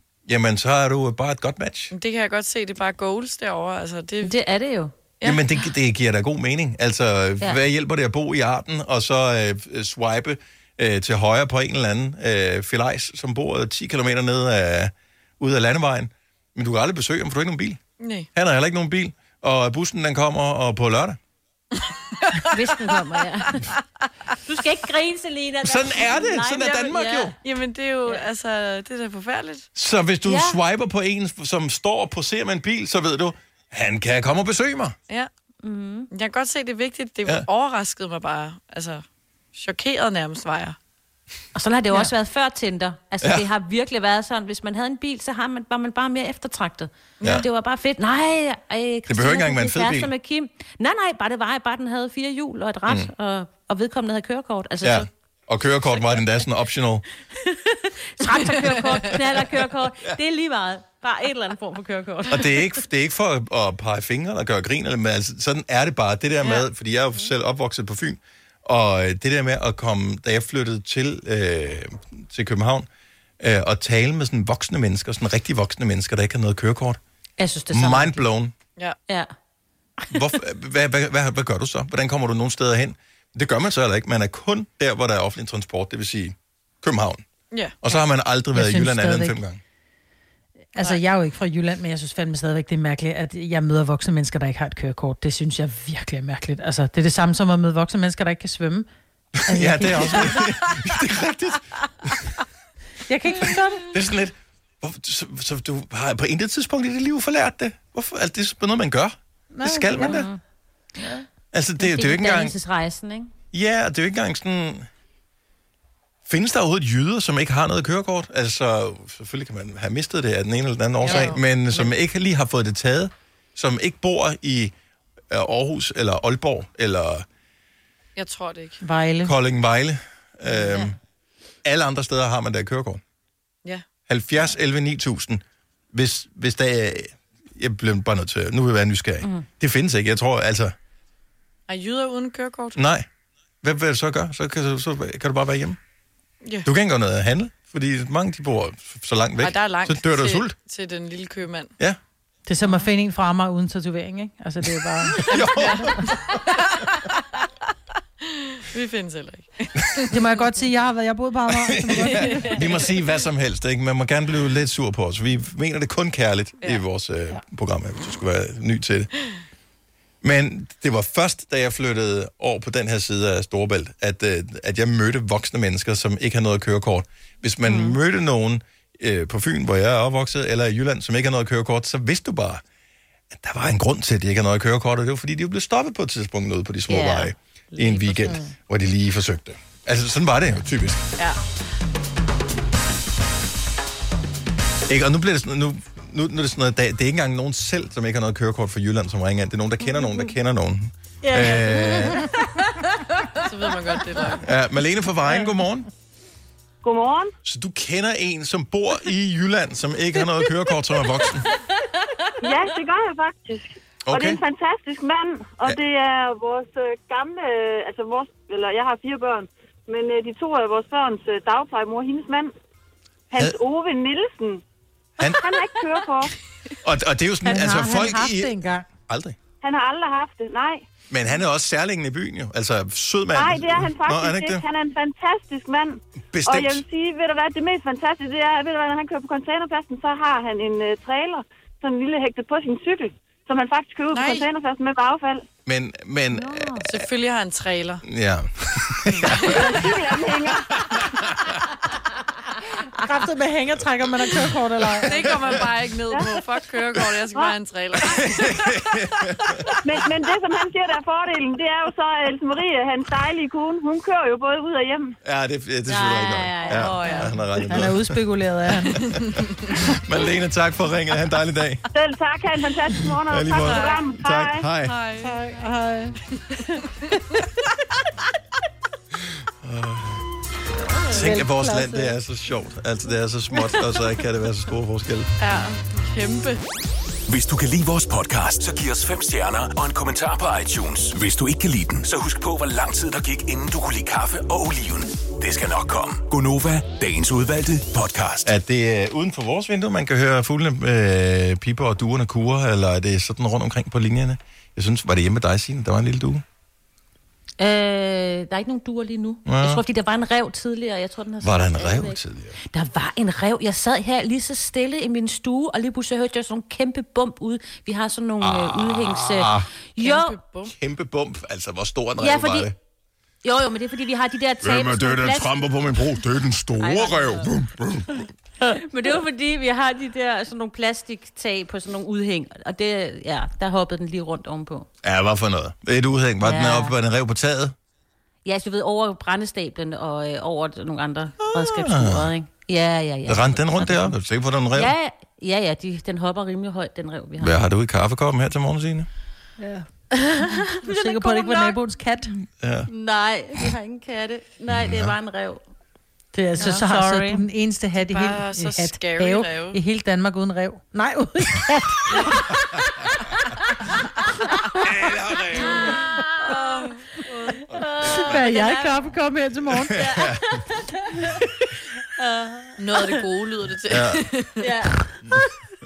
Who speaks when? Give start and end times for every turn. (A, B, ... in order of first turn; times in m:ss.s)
0:00.3-0:01.9 A
0:01.9-0:04.4 B
0:04.2-0:04.9 C
0:05.2-0:05.4 B
0:05.2-0:17.8 A
0:18.0-0:18.3 B
0:18.4-0:21.2 A
0:22.2-0:23.0 B
0:22.4-0:23.7 C
0:24.5-0:27.4 C
0:25.6-0:27.3 A
0:27.4-0:29.7 B
0:29.8-0:35.0 A
0:30.2-0:30.6 C
0:35.6-0:36.1 C
0:36.1-0:39.0 B
0:39.5-0:40.8 B
0:41.6-0:55.1 C
0:43.2-0:43.5 A
0:47.2-0:47.4 B
0:49.1-0:50.1 A
0:52.9-0:53.1 A
0:54.8-0:57.1 A
0:57.4-1:02.8 C
1:02.3-1:12.9 A
1:13.4-1:17.0 A
1:17.4-1:18.2 C
1:17.7-1:18.5 A
1:20.1-1:27.2 A
1:27.5-1:27.8 B
1:27.8-1:29.6 A
1:28.5-1:29.4 D
1:30.8-1:38.9 D
1:39.4-1:42.3 A
1:39.5-1:40.5 D
1:43.1-1:43.9 D
1:43.9-1:50.3 A
1:49.5-1:50.2 D
1:50.0-1:50.4 C
1:51.5-1:52.6 A
1:51.8-1:53.3 C
1:53.5-1:54.9 A
1:56.3-2:04.7 A
2:01.0-2:01.4 B
2:01.0-2:01.8 C
2:05.3-2:07.3 A
2:08.2-2:08.8 B
2:08.8-2:09.3 D
2:09.2-2:11.0 A
2:10.6-2:10.9 C
2:11.6-2:13.0 A
2:14.1-2:20.8 A
2:21.7-2:22.8 B
2:22.8-2:23.1 A
2:23.6-2:25.8 A
2:26.6-2:30.6 A
2:29.4-2:31.7 B
2:32.5-2:35.9 D
2:35.2-2:36.6 A
2:35.3-2:37.2 B
2:38.2-2:40.2 B
2:40.1-2:42.6 D
2:41.5-2:49.1 A
2:50.2-3:02.6 A
2:57.6-2:58.0 C
3:03.3-3:11.1 A
3:06.9-3:08.5 C
3:14.9-3:22.3 A
3:20.0-3:20.3 C
3:21.2-3:23.5 C
3:23.4-3:24.4 B
3:24.4-3:25.9 A
3:26.8-3:27.3 E
3:27.4-3:31.5 A
3:32.4-3:42.5 E
3:34.1-3:34.4 A
3:43.3-3:44.6 E
3:45.2-3:45.5 A
3:45.2-3:46.3 E
3:46.8-3:49.4 A
3:47.4-3:48.9 D
3:49.6-3:50.8 E
3:51.1-3:54.6 A
3:53.3-4:05.5 E
3:56.3-3:56.8 A
4:04.1-4:04.5 B
4:05.7-4:07.1 A
4:06.3-4:06.9 C
4:06.8-4:08.0 B
4:08.0-4:09.9 A
4:09.2-4:09.9 B
4:09.4-4:10.8 E
4:10.8-4:11.5 A
4:12.8-4:15.4 D
4:15.0-4:19.7 B
4:18.0-4:19.6 A
4:19.8-4:25.2 E
4:25.2-4:31.8 A
4:25.9-4:27.4 C
4:26.7-4:27.4 B
4:27.7-4:29.0 D
4:31.9-4:34.7 E
4:33.2-4:35.0 A
4:33.6-4:34.0 B
4:34.8-4:35.4 B
4:35.2-4:36.2 D
4:39.6-4:40.2 A
4:41.1-4:45.3 A
4:41.1-4:42.1 D
4:45.4-4:46.6 B
4:47.3-4:58.5 F
4:58.4-5:06.4 A
5:07.6-5:12.2 C
5:09.4-5:09.8 A
5:11.4-5:12.6 A
5:12.7-5:20.4 C
5:18.4-5:19.7 A
5:20.0-5:20.7 B
5:20.6-5:22.8 A
5:22.2-5:22.7 C
5:23.4-5:25.6 C
5:24.6-5:28.3 A
5:26.8-5:27.5 C
5:28.6-5:34.9 C
5:35.0-5:37.8 A
5:36.4-5:37.0 C
5:38.4-5:44.2 C
5:41.4-5:42.3 A
5:43.3-5:44.9 A
5:44.7-5:47.6 C
5:47.4-5:49.1 A
5:49.6-5:49.9 D
5:50.1-5:51.8 C
5:50.4-5:52.3 D
5:52.6-5:52.9 A
5:52.9-5:55.6 C
5:54.7-5:55.2 A
5:56.3-6:02.7 D
5:56.6-5:57.4 C
5:58.0-5:59.8 B
6:04.8-6:05.9 A
6:05.5-6:09.1 C
6:06.6-6:07.3 B
6:08.0-6:10.0 D
6:09.9-6:10.6 A
6:09.9-6:11.4 C
6:12.2-6:13.2 C
6:12.8-6:14.7 B
6:13.9-6:14.2 A
6:14.6-6:15.4 C